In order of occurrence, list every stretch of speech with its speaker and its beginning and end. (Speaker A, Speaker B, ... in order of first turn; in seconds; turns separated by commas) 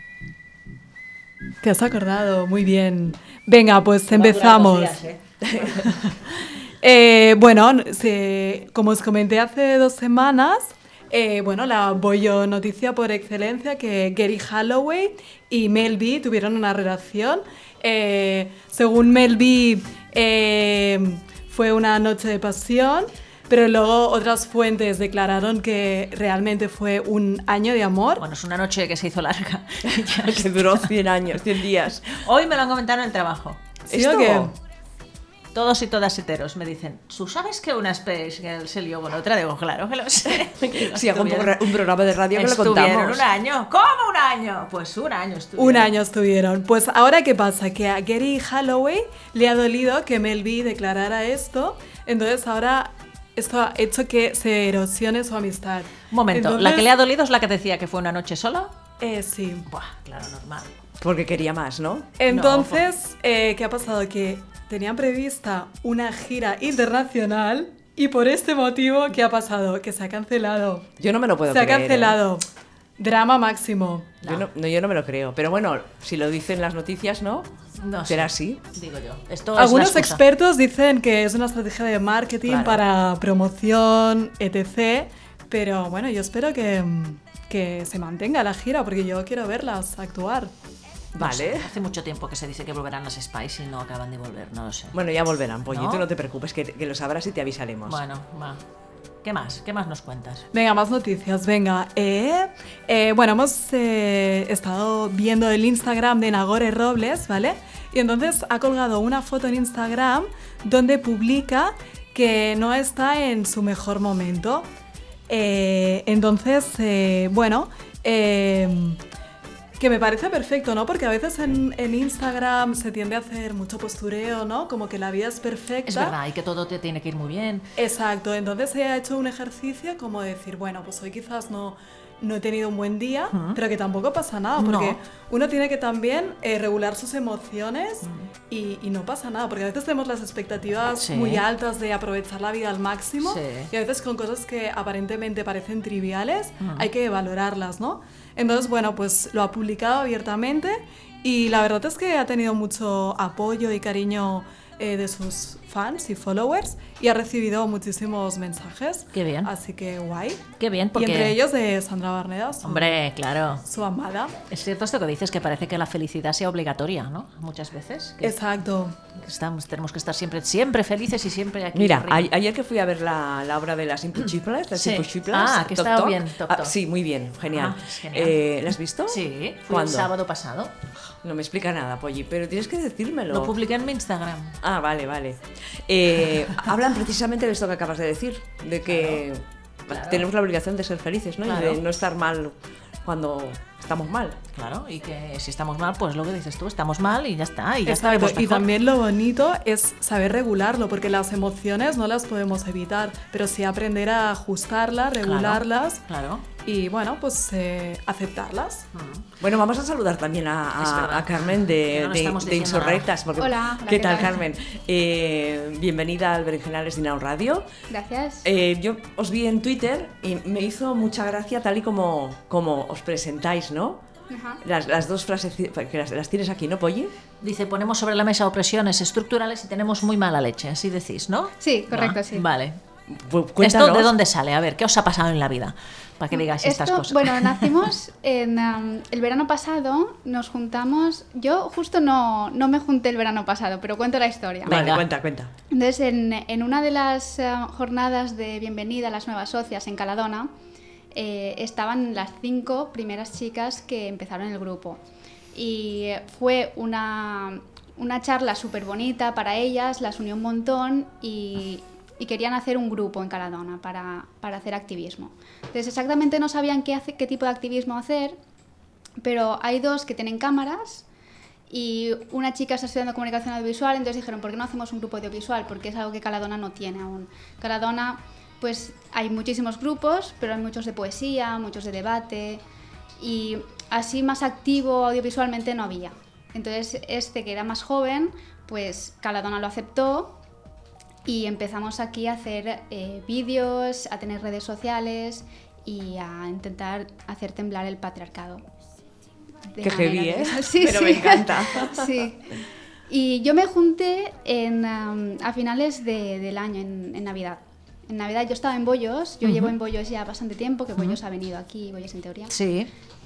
Speaker A: 1.6-5.0, Speaker B: 4.1-5.8, Speaker C: 5.4-5.8, Speaker A: 5.9-6.1, Speaker A: 6.8-28.2, Speaker B: 28.2-30.9, Speaker C: 29.9-32.2, Speaker B: 32.2-33.6, Speaker A: 33.9-34.5, Speaker C: 33.9-34.5, Speaker B: 35.5-41.7, Speaker C: 40.4-43.2, Speaker B: 42.3-45.9, Speaker A: 45.6-56.9, Speaker B: 56.1-58.7, Speaker A: 59.0-59.7, Speaker B: 59.7-60.7, Speaker C: 61.0-62.1, Speaker A: 62.2-70.9, Speaker B: 62.3-62.8, Speaker C: 71.0-72.2, Speaker A: 71.5-72.5, Speaker A: 73.0-74.1, Speaker C: 74.2-77.5, Speaker B: 77.8-80.2, Speaker C: 78.1-78.6, Speaker A: 79.6-90.5, Speaker B: 82.5-82.8, Speaker C: 91.1-91.7, Speaker B: 91.2-95.0, Speaker C: 94.9-98.0, Speaker B: 95.7-96.0, Speaker B: 97.9-98.6, Speaker B: 99.2-100.5, Speaker A: 100.5-114.7, Speaker A: 115.3-119.0, Speaker A: 119.8-126.2, Speaker B: 125.9-127.7, Speaker A: 127.8-160.4, Speaker B: 133.3-133.6, Speaker B: 134.6-135.0, Speaker B: 138.0-138.3, Speaker B: 141.0-141.4, Speaker B: 143.2-143.7, Speaker B: 146.6-146.9, Speaker B: 159.1-159.5, Speaker B: 160.6-161.4, Speaker A: 160.9-163.0, Speaker B: 162.6-163.6, Speaker A: 163.7-164.3, Speaker B: 164.5-168.4, Speaker A: 168.2-168.9, Speaker B: 169.1-172.3, Speaker C: 171.8-180.1, Speaker B: 174.8-176.7, Speaker B: 177.4-178.4, Speaker B: 179.1-180.7, Speaker C: 181.2-183.5, Speaker B: 183.3-184.6, Speaker C: 184.6-194.4, Speaker B: 188.8-189.2, Speaker B: 189.9-190.2, Speaker B: 191.4-191.8, Speaker B: 194.5-198.7, Speaker A: 197.9-206.0, Speaker B: 205.2-206.4, Speaker A: 206.7-208.9, Speaker B: 208.9-209.2, Speaker C: 209.4-217.7, Speaker B: 210.8-213.1, Speaker D: 213.4-214.4, Speaker D: 217.9-218.5, Speaker C: 218.4-224.0, Speaker D: 224.3-224.6, Speaker C: 224.6-227.1, Speaker B: 227.4-232.8, Speaker D: 231.6-232.5, Speaker C: 233.1-234.1, Speaker B: 233.6-237.7, Speaker D: 236.3-244.8, Speaker B: 244.7-245.1, Speaker C: 244.7-245.5, Speaker D: 245.7-250.5, Speaker D: 251.1-255.0, Speaker D: 255.5-268.4, Speaker D: 269.2-271.1, Speaker D: 271.7-282.6, Speaker D: 283.2-290.4, Speaker D: 291.3-298.6, Speaker D: 299.7-302.5, Speaker C: 299.8-302.2, Speaker D: 303.1-312.6, Speaker B: 309.4-309.8, Speaker B: 312.5-312.9